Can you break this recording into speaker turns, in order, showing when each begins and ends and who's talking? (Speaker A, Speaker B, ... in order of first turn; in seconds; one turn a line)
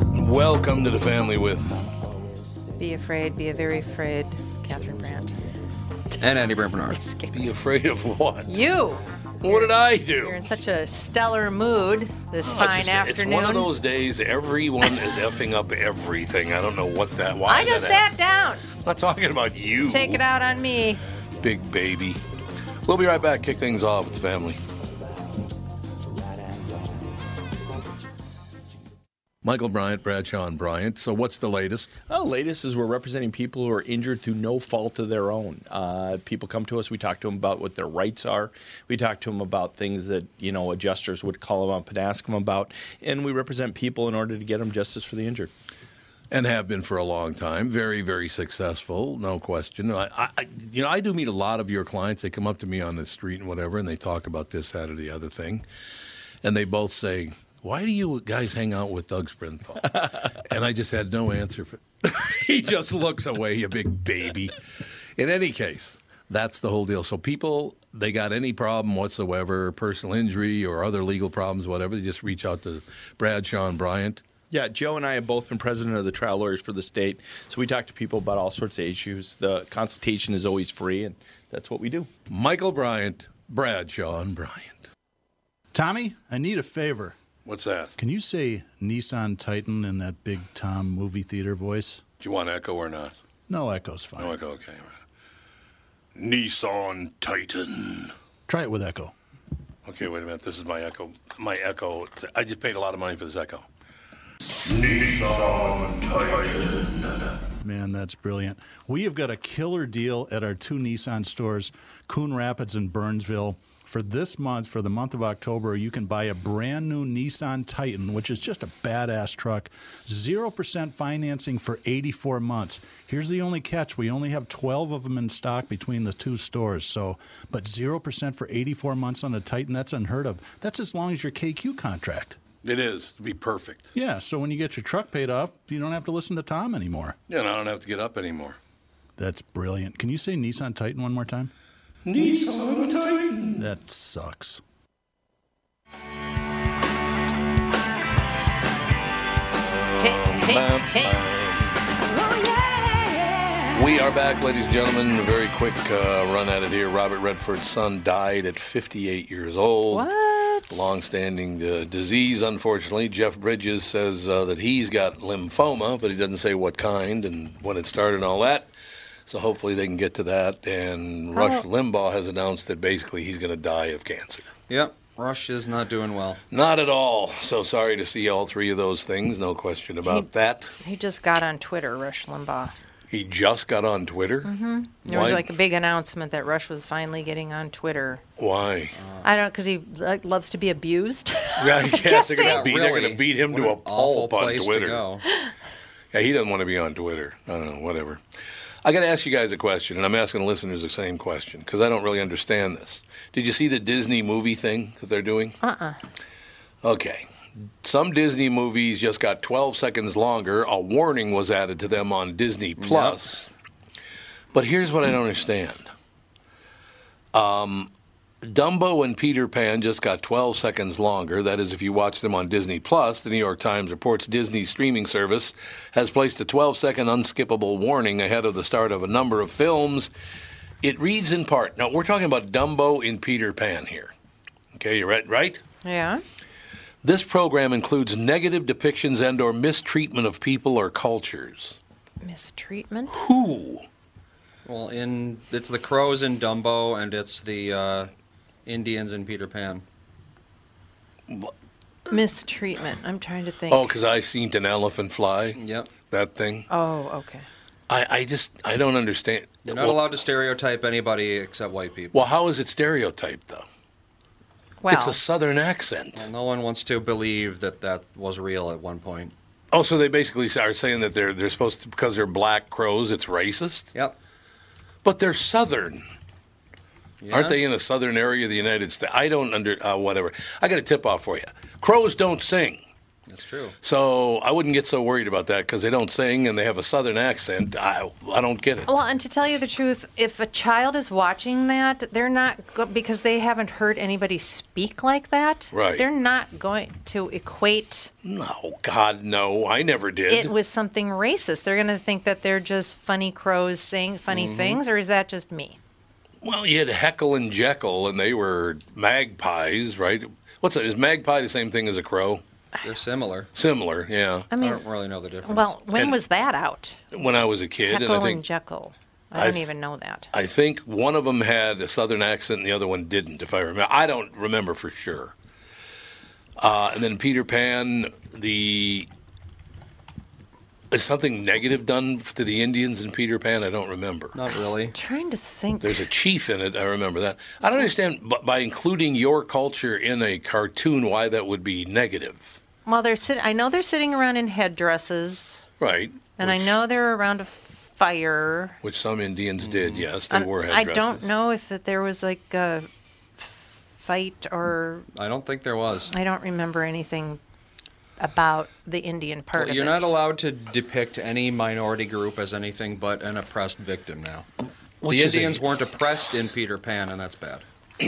Speaker A: 0.1-1.8
Speaker B: 2.8-5.4
Speaker B: 6.1-7.5
Speaker C: 6.2-7.0
Speaker A: 7.3-8.6
Speaker B: 8.5-13.7
Speaker A: 9.4-10.4
Speaker A: 12.4-18.0
Speaker B: 17.5-18.7
Speaker A: 18.8-20.2
Speaker B: 19.9-21.0
Speaker A: 21.4-22.2
Speaker A: 22.8-24.6
Speaker A: 29.4-31.9
Speaker D: 32.1-45.5
Speaker A: 46.3-55.6
Speaker A: 56.4-64.6
Speaker A: 65.2-74.2
Speaker D: 74.5-82.1
Speaker A: 82.3-84.9
Speaker E: 85.7-87.2
Speaker A: 87.4-87.9
Speaker E: 88.0-92.0
Speaker A: 92.2-93.2
Speaker E: 93.5-94.3
Speaker A: 94.2-95.0
Speaker A: 96.1-98.1
Speaker E: 98.5-99.1
Speaker A: 99.8-103.7
Speaker A: 104.6-107.4
Speaker E: 107.6-132.4
Speaker A: 132.6-133.9
Speaker E: 133.9-137.2
Speaker A: 137.3-138.6
Speaker E: 139.2-141.5
Speaker A: 142.0-143.6
Speaker E: 143.6-144.6
Speaker A: 149.6-151.9
Speaker B: 150.0-151.2
Speaker B: 152.0-153.8
Speaker A: 153.7-160.1
Speaker B: 159.9-160.9
Speaker A: 160.7-168.7
Speaker A: 169.3-174.5
Speaker B: 171.3-171.6
Speaker C: 174.7-176.4
Speaker A: 176.5-180.7
Speaker B: 180.8-182.7
Speaker A: 183.1-184.5
Speaker B: 184.4-188.2
Speaker C: 185.0-185.4
Speaker A: 185.1-185.4
Speaker A: 188.4-188.9
Speaker C: 188.9-189.3
Speaker B: 189.2-192.6
Speaker A: 191.6-195.0
Speaker C: 192.3-195.2
Speaker A: 196.1-198.2
Speaker A: 198.8-205.6
Speaker B: 205.6-206.0
Speaker A: 206.8-207.2
Speaker A: 207.8-213.5
Speaker C: 212.8-213.3
Speaker A: 214.5-215.9
Speaker A: 217.3-217.9
Speaker A: 218.4-230.1
Speaker A: 230.8-234.1
Speaker A: 234.7-235.6
Speaker B: 235.8-236.2
Speaker A: 237.0-241.8
Speaker B: 242.2-243.2
Speaker A: 243.1-243.8
Speaker C: 244.6-248.1
Speaker C: 248.7-249.8
Speaker B: 252.1-253.9
Speaker A: 253.7-255.6
Speaker C: 255.6-255.9
Speaker A: 256.1-256.7
Speaker B: 256.7-257.5
Speaker A: 257.9-260.1
Speaker C: 259.6-262.1
Speaker A: 262.1-263.6
Speaker B: 264.8-265.2
Speaker A: 264.9-266.3
Speaker C: 266.1-269.3
Speaker A: 269.7-273.9
Speaker A: 275.0-276.0
Speaker C: 277.2-277.6
Speaker A: 277.3-282.8
Speaker C: 283.3-283.8
Speaker A: 283.8-288.9
Speaker B: 288.9-298.1
Speaker A: 295.7-296.0
Speaker A: 298.2-300.5
Speaker B: 300.3-305.8
Speaker C: 304.3-304.8
Speaker A: 306.4-312.4
Speaker C: 312.8-313.5
Speaker A: 313.5-314.5
Speaker B: 314.5-314.8
Speaker C: 314.6-315.7
Speaker B: 315.4-317.0
Speaker A: 317.1-318.4
Speaker B: 317.9-320.3
Speaker A: 319.4-319.7
Speaker A: 320.3-325.3
Speaker A: 326.6-329.1
Speaker A: 330.9-334.4
Speaker C: 334.3-334.9
Speaker B: 334.9-336.0
Speaker A: 335.8-342.6
Speaker B: 342.9-345.6
Speaker A: 345.8-346.8
Speaker B: 346.4-348.8
Speaker A: 348.8-351.3
Speaker C: 349.6-350.1
Speaker B: 350.3-352.9
Speaker B: 353.4-355.1
Speaker C: 355.1-356.1
Speaker B: 356.1-357.4
Speaker B: 358.2-360.1
Speaker C: 359.6-364.4
Speaker A: 365.0-365.6
Speaker C: 365.1-367.6